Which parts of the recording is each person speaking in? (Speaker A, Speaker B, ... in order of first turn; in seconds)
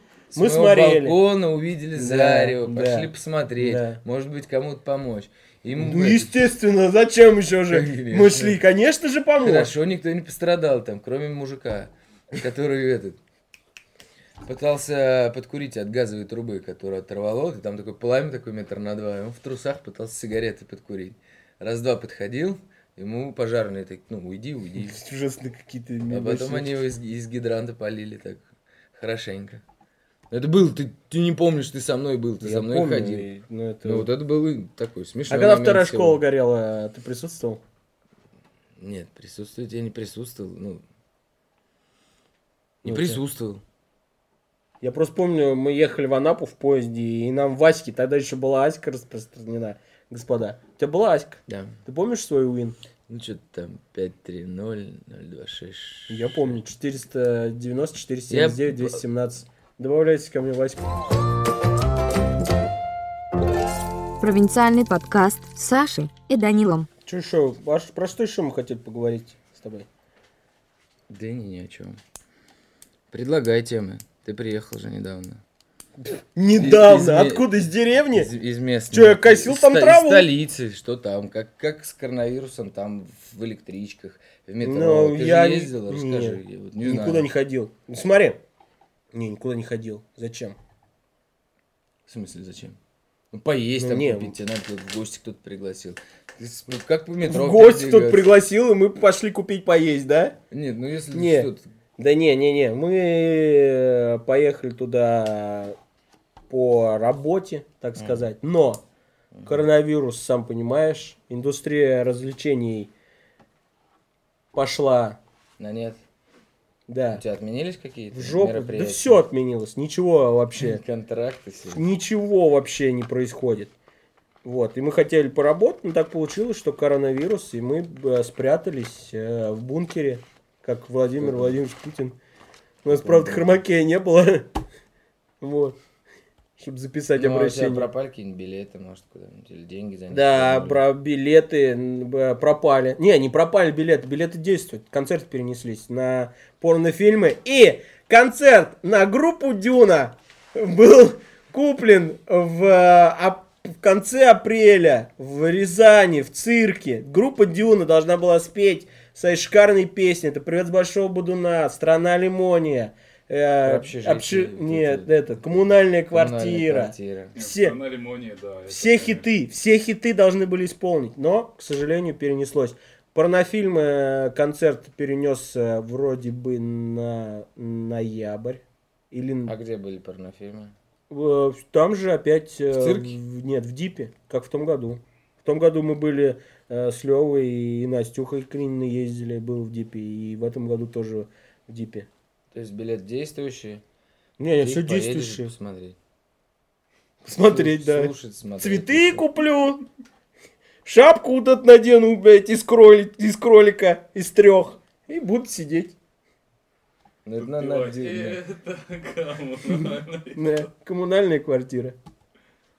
Speaker A: 0.3-6.3, 7.7-8.6, 9.4-13.2, 14.4-25.0, 26.1-29.6, 30.3-33.3, 33.8-36.2, 38.8-40.8, 42.8-43.6, 51.5-51.8, 53.1-56.6, 58.3-59.0, 71.1-72.0, 73.1-75.4, 76.6-77.5, 78.1-87.3, 92.1-92.8, 93.3-98.4, 100.5-101.7, 108.0-108.2, 109.3-109.6, 115.6-116.0, 117.1-119.2, 120.6-121.8, 131.2-131.6, 132.9-133.6, 137.2-140.8, 163.6-165.6, 166.1-167.3, 179.5-180.7, 182.7-183.2, 192.5-193.8, 194.6-196.0, 197.4-199.3, 207.2-208.4
Speaker B: 0.3-1.2, 1.9-4.0, 5.7-9.8, 24.8-26.7, 32.4-34.1, 35.3-37.6, 42.9-43.2, 44.8-52.8, 56.1-60.9, 67.1-69.9, 76.0-78.3, 78.9-80.3, 84.6-88.4, 89.1-90.6, 93.8-94.3, 97.2-100.4, 101.1-105.8, 106.5-108.8, 109.5-112.9, 114.5-115.2, 116.9-117.2, 118.1-120.8, 121.7-123.7, 124.4-132.2, 132.8-134.5, 135.4-135.8, 136.6-137.9, 140.1-167.8, 168.7-179.5, 181.1-192.1, 194.4-195.5, 197.2-199.8, 200.8-206.0, 210.3-212.0
Speaker C: 64.2-66.9
Speaker D: 167.4-169.3, 207.4-210.7